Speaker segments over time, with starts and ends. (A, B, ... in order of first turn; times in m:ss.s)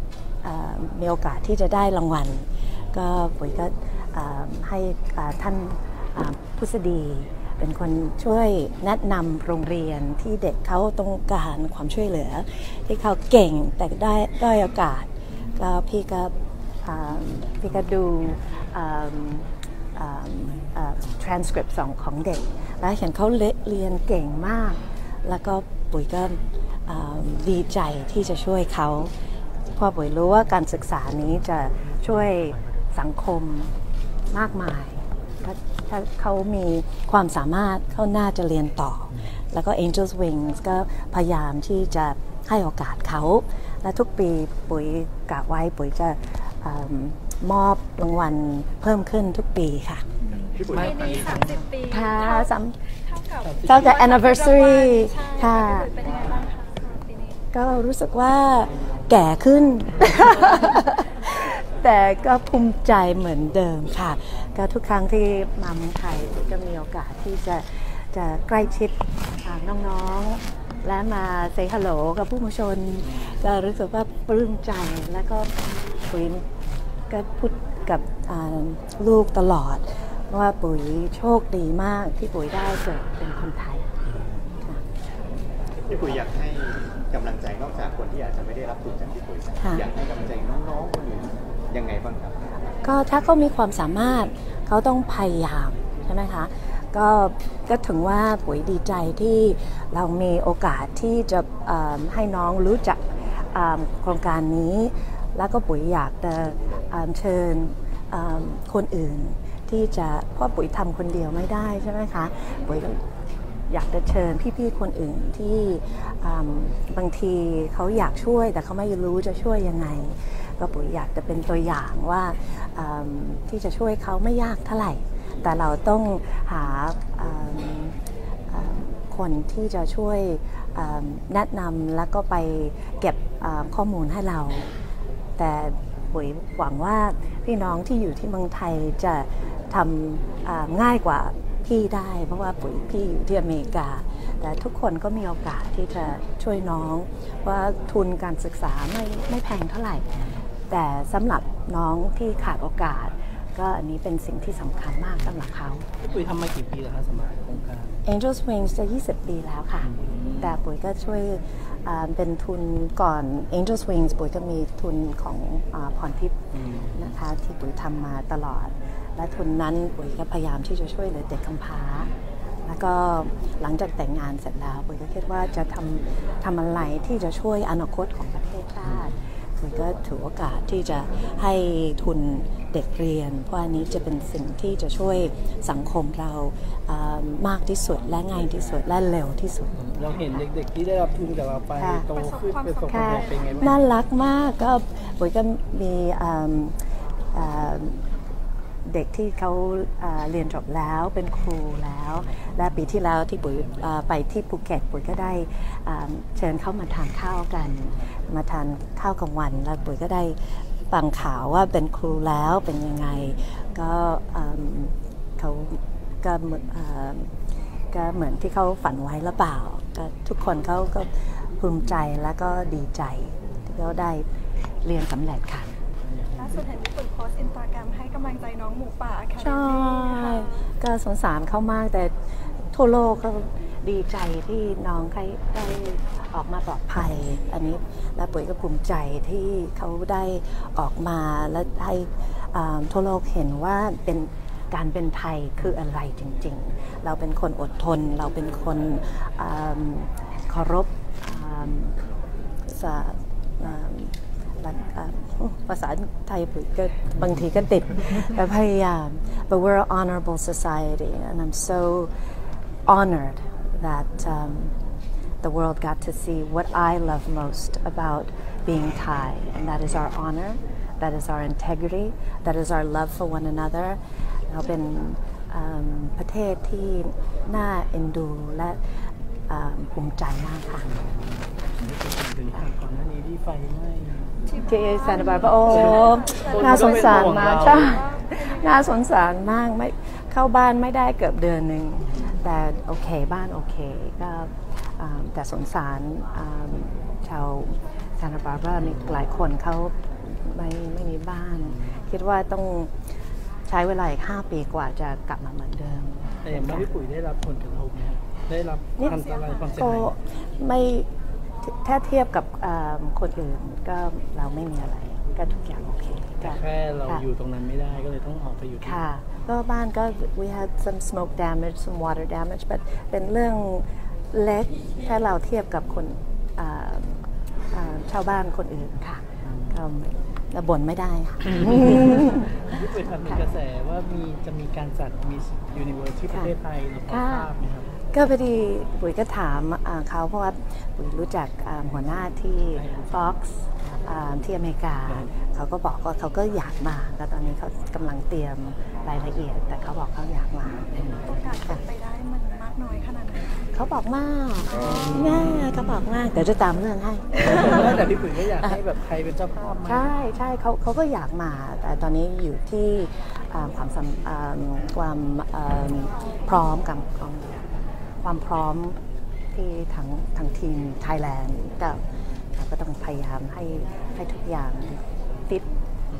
0:00.4-0:29.1 A
0:29.8-0:33.7 A
0:34.3-0:50.0 A
0:50.6-0:51.6 B
0:50.7-0:52.5 C
0:51.9-0:52.8 A
0:53.0-0:57.4 C
0:53.4-0:53.8 B
0:53.6-0:55.9 A
0:57.5-1:15.5 A
1:16.0-1:16.4 A
1:17.1-1:23.9 A
1:25.9-1:32.4 D
1:29.6-1:29.8 A
1:32.8-1:53.0 A
1:53.7-2:08.0 A
2:08.5-2:14.7 A
2:15.4-2:30.0 A
2:30.7-2:35.8 A
2:36.0-2:38.0 B
2:38.0-2:39.9 A
2:39.9-2:40.5 B
2:40.4-2:46.4 A
2:46.5-2:47.0 B
2:46.9-2:52.1 A
2:52.6-3:09.7 A
3:09.8-3:13.8 B
3:11.8-3:12.0 A
3:12.1-3:13.8 C
3:12.9-3:16.8 A
3:17.3-3:18.0 A
3:18.8-3:37.3 A
3:37.9-3:44.2 A
3:44.8-3:45.7 A
3:46.0-3:46.6 B
3:46.4-3:50.6 C
3:49.4-4:11.9 A
4:12.7-4:22.1 A
4:22.8-4:24.7 A
4:25.4-4:38.8 A
4:39.5-4:41.0 A
4:41.4-4:44.4 B
4:44.5-4:48.9 C
4:44.6-5:02.9 A
4:45.3-4:48.0 B
5:03.6-5:06.9 A
5:06.4-5:10.1 B
5:09.8-5:11.1 A
5:11.6-5:17.2 A
5:16.4-5:19.0 B
5:18.8-5:27.2 A
5:27.7-5:32.6 A
5:31.9-5:37.9 B
5:37.1-5:37.5 A
5:38.1-5:50.8 A
5:42.8-5:43.2 B
5:51.0-5:51.2 B
5:51.3-5:53.6 C
5:53.7-5:58.0 A
5:54.8-5:55.4 B
5:57.4-6:00.1 B
5:59.8-6:07.6 A
6:08.2-6:09.0 A
6:09.5-6:12.0 A
6:12.5-6:15.6 A